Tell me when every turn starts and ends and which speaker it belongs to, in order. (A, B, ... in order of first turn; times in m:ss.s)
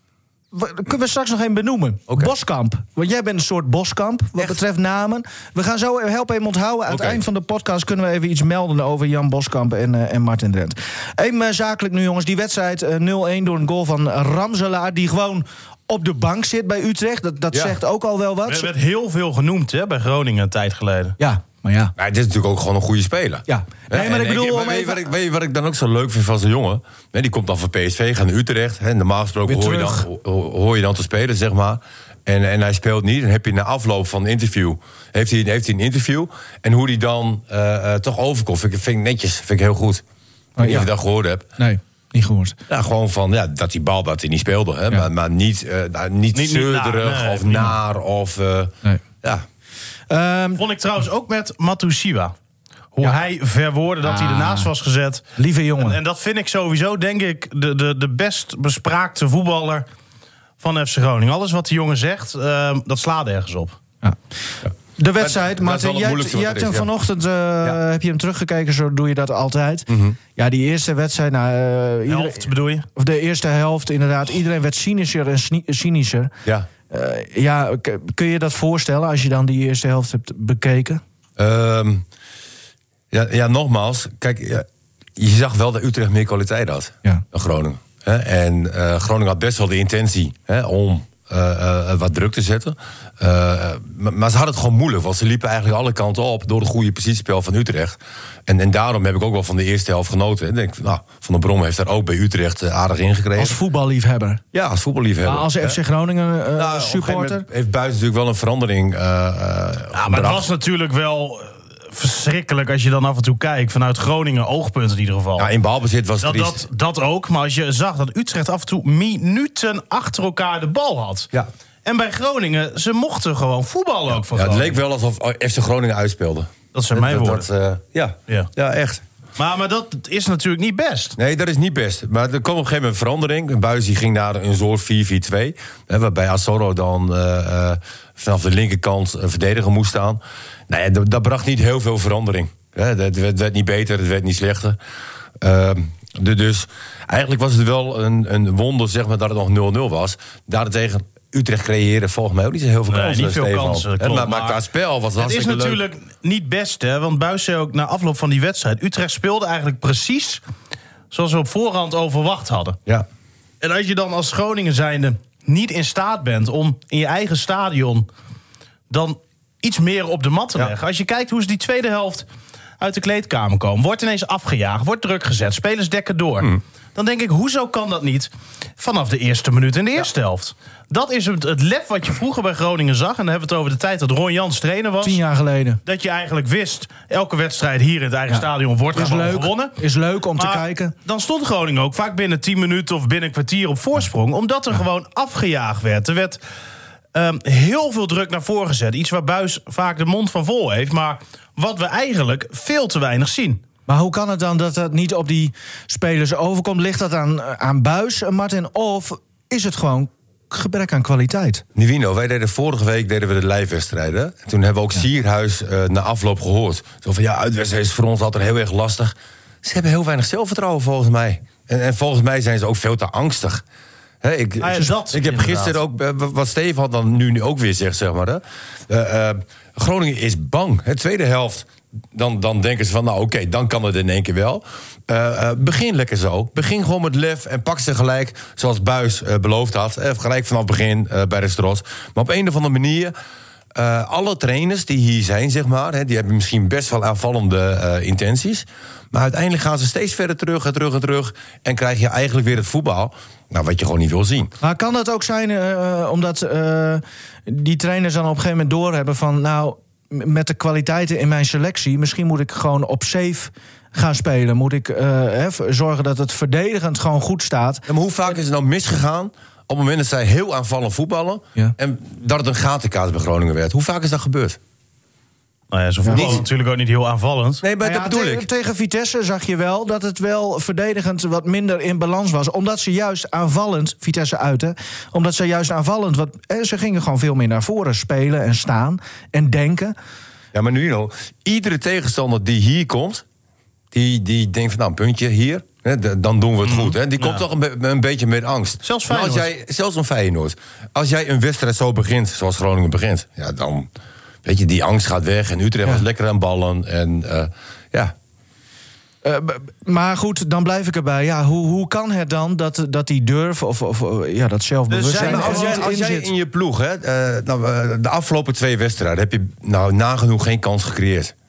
0:00.5-0:18.7 A
0:06.9-0:07.2 B
0:18.5-0:21.2 C
0:21.2-0:21.9 A
0:22.0-0:40.0 B
0:23.5-0:25.1 A
0:29.5-0:30.1 A
0:40.6-0:40.9 A
0:40.6-0:41.5 B
0:41.6-0:42.6 A
0:42.7-0:49.4 B
0:46.4-0:47.8 C
0:50.1-0:50.6 A
0:50.6-0:52.4 C
0:53.0-0:55.3 C
0:54.0-0:54.7 A
0:55.4-0:56.0 A
0:55.8-0:59.9 C
1:00.6-1:03.8 C
1:04.7-1:06.9 B
1:05.0-1:16.3 A
1:09.9-1:10.2 B
1:12.1-1:12.9 C
1:16.9-1:21.0 A
1:21.4-1:22.0 B
1:23.1-1:24.7 B
1:25.2-1:43.6 B
1:43.4-1:44.4 A
1:44.5-1:45.8 B
1:45.2-1:47.5 A
1:46.6-1:50.5 B
1:49.9-1:55.5 C
1:55.4-1:56.6 B
1:56.2-2:01.3 C
2:01.8-2:04.8 C
2:04.3-2:09.0 B
2:06.7-2:07.5 C
2:09.4-2:11.2 C
2:11.2-2:24.8 B
2:25.4-2:35.8 B
2:32.9-2:34.6 C
2:35.2-2:40.4 C
2:41.1-2:42.8 C
2:43.6-2:48.1 C
2:48.9-2:52.2 C
2:52.8-3:05.2 C
3:05.0-3:05.8 A
3:05.8-3:09.8 C
3:09.0-3:10.9 A
3:10.4-3:16.4 C
3:17.2-3:23.6 C
3:23.9-3:31.6 A
3:31.8-3:43.6 B
3:44.2-4:03.1 B
3:44.6-3:45.8 C
4:03.8-4:14.5 B
4:14.6-4:27.9 A
4:27.9-4:34.6 B
4:35.7-4:37.6 C
4:36.0-4:36.3 A
4:36.1-4:36.4 B
4:37.6-4:38.5 B
4:37.8-4:50.0 A
4:50.5-4:53.2 B
4:53.9-5:03.9 B
4:56.6-4:57.4 C
4:58.8-4:59.5 C
5:04.4-5:08.1 B
5:09.2-5:16.3 A
5:14.9-5:15.9 C
5:15.2-5:21.3 B